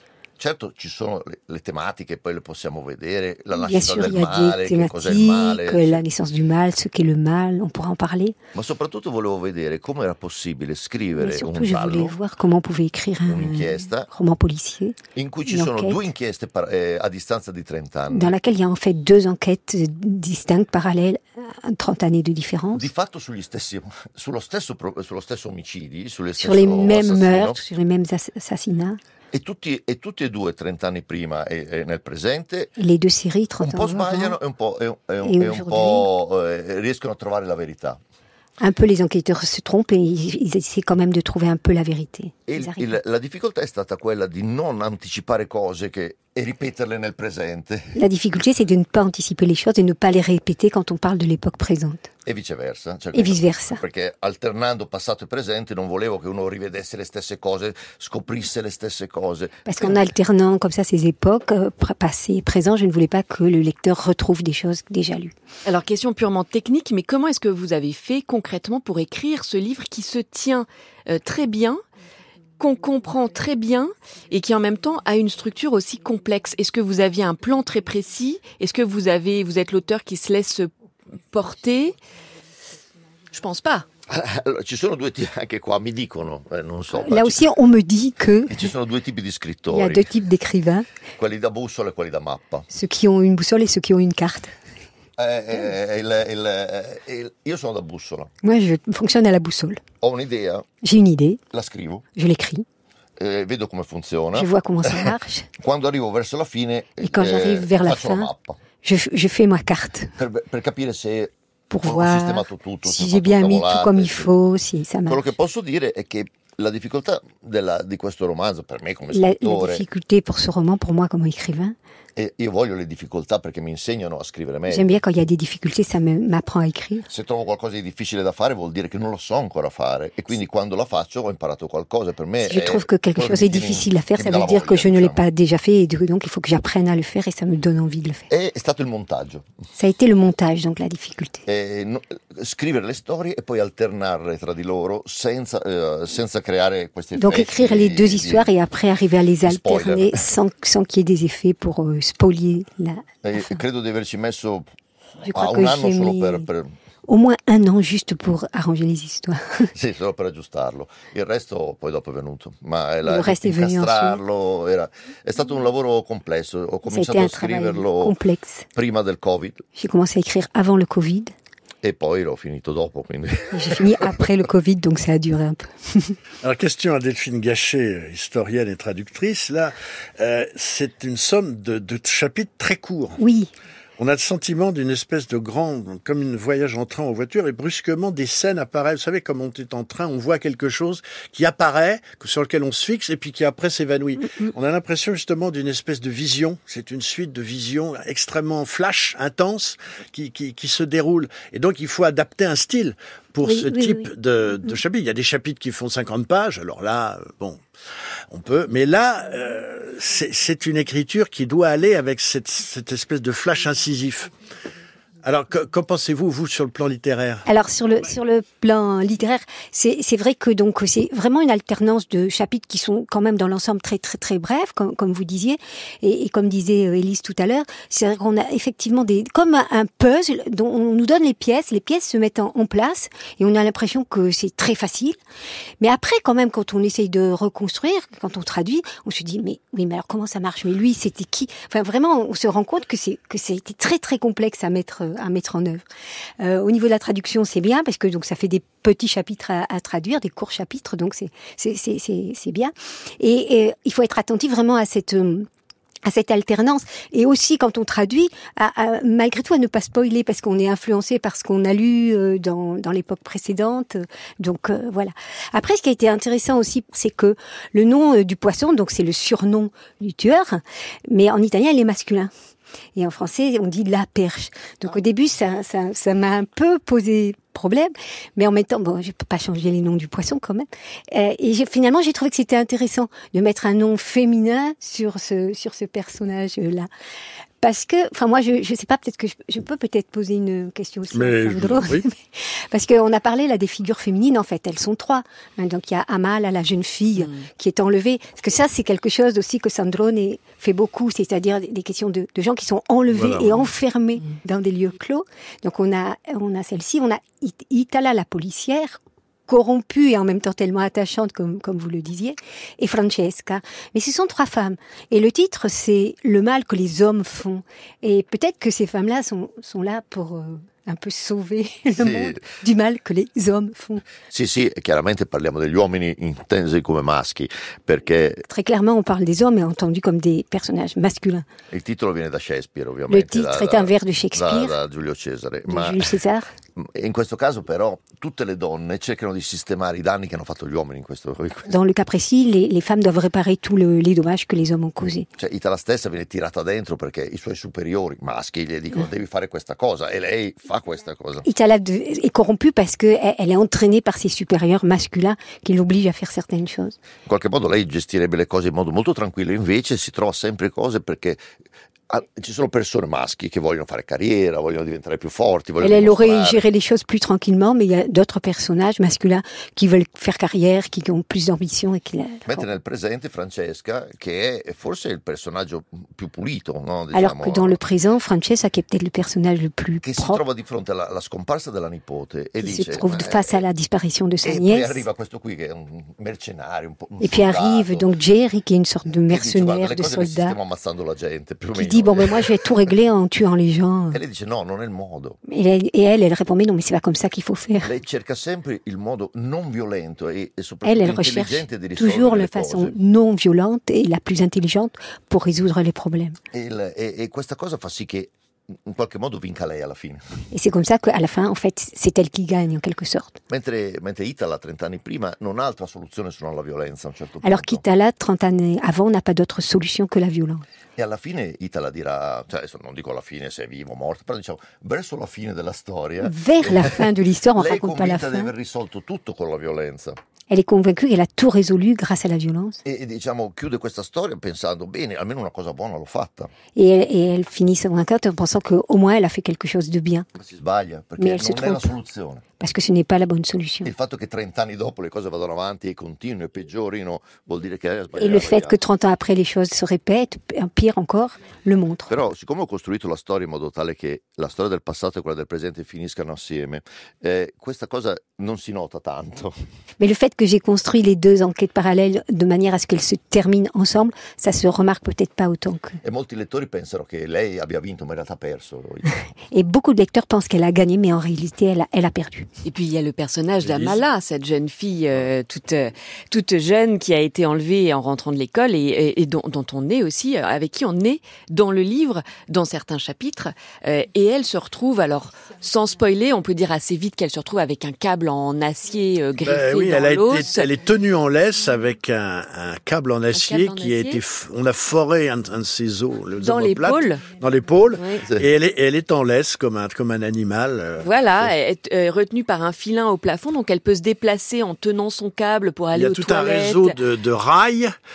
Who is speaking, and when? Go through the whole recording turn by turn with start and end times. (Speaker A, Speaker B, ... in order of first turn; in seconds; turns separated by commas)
Speaker A: 0.4-6.0, Speaker B: 3.6-8.3, Speaker A: 8.5-12.2, Speaker B: 11.2-16.0, Speaker A: 13.3-14.1, Speaker A: 15.1-18.3, Speaker B: 18.1-22.9, Speaker A: 22.7-27.6, Speaker B: 26.4-29.0, Speaker A: 29.3-32.7, Speaker B: 32.8-34.3, Speaker A: 33.6-38.0, Speaker B: 35.2-36.0, Speaker B: 38.6-42.9, Speaker A: 42.5-48.0, Speaker B: 48.0-52.1, Speaker A: 52.2-60.0, Speaker B: 53.1-53.8, Speaker B: 59.6-65.3, Speaker C: 65.6-71.8, Speaker C: 72.6-80.7, Speaker C: 81.3-82.0, Speaker C: 83.3-83.8, Speaker A: 84.1-87.4, Speaker B: 87.0-88.6, Speaker A: 88.5-90.1, Speaker B: 89.7-90.9, Speaker A: 91.2-92.7, Speaker B: 92.7-94.5, Speaker A: 95.2-98.3, Speaker B: 98.4-99.8, Speaker A: 100.0-100.7, Speaker B: 100.8-101.4, Speaker A: 101.5-102.0, Speaker B: 102.2-102.6, Speaker A: 103.2-108.6, Speaker B: 104.3-105.5, Speaker B: 107.0-108.3, Speaker B: 108.8-110.1, Speaker A: 110.2-114.3, Speaker B: 111.7-115.2, Speaker A: 115.1-119.8, Speaker B: 119.1-121.7, Speaker A: 122.2-125.0, Speaker B: 124.7-127.0, Speaker A: 127.1-135.2, Speaker B: 132.4-138.3, Speaker A: 138.3-139.5, Speaker B: 139.8-141.4, Speaker A: 141.4-148.5, Speaker B: 147.2-153.0, Speaker A: 149.4-150.2, Speaker A: 153.2-154.7, Speaker A: 155.2-156.7, Speaker B: 155.2-156.4, Speaker B: 157.1-159.7, Speaker A: 159.7-168.2, Speaker B: 163.0-164.2, Speaker B: 166.8-168.7, Speaker A: 168.7-169.6, Speaker B: 169.8-171.3, Speaker A: 171.8-174.3, Speaker B: 173.5-176.2, Speaker D: 176.4-183.2, Speaker B: 183.2-183.5, Speaker D: 184.0-207.6, Speaker B: 203.4-204.1, Speaker D: 208.3-214.3, Speaker D: 215.2-217.5, Speaker B: 217.4-235.2, Speaker B: 235.8-245.8, Speaker B: 246.4-255.5, Speaker B: 256.0-272.3, Speaker B: 272.9-286.9, Speaker B: 287.6-324.0, Speaker D: 291.1-292.1, Speaker D: 303.1-303.7, Speaker A: 321.9-322.4, Speaker A: 324.3-328.4, Speaker B: 328.5-331.4, Speaker A: 331.7-336.2, Speaker B: 333.1-334.7, Speaker B: 335.7-336.5, Speaker A: 336.8-341.7, Speaker B: 341.7-345.2, Speaker A: 345.4-351.4, Speaker B: 351.4-356.9, Speaker A: 357.3-361.4, Speaker A: 362.1-366.6, Speaker B: 365.8-372.6, Speaker A: 372.4-377.8, Speaker B: 377.1-380.4, Speaker A: 380.0-383.6, Speaker B: 382.6-385.0, Speaker A: 384.4-388.1, Speaker B: 387.2-390.5, Speaker A: 389.3-392.7, Speaker B: 391.7-394.2, Speaker A: 394.1-395.4, Speaker B: 395.5-397.9, Speaker A: 397.8-402.9, Speaker B: 400.8-406.4, Speaker A: 406.5-410.2, Speaker B: 410.5-413.4, Speaker A: 413.5-417.8, Speaker B: 417.4-420.6, Speaker A: 421.0-430.2, Speaker B: 426.2-428.5, Speaker B: 430.5-432.8, Speaker A: 432.8-436.5, Speaker B: 436.7-440.3, Speaker A: 440.4-442.4, Speaker B: 441.2-441.9, Speaker B: 442.6-443.9, Speaker A: 443.8-448.8, Speaker B: 448.2-452.1, Speaker A: 452.1-459.6, Speaker B: 460.0-466.0, Speaker A: 466.0-469.2, Speaker B: 469.5-472.5, Speaker C: 472.6-490.6, Speaker D: 473.6-474.0, Speaker D: 489.4-501.1, Speaker C: 493.3-494.2, Speaker C: 496.4-497.2, Speaker C: 497.9-498.2, Speaker C: 501.0-506.9, Speaker D: 505.9-507.9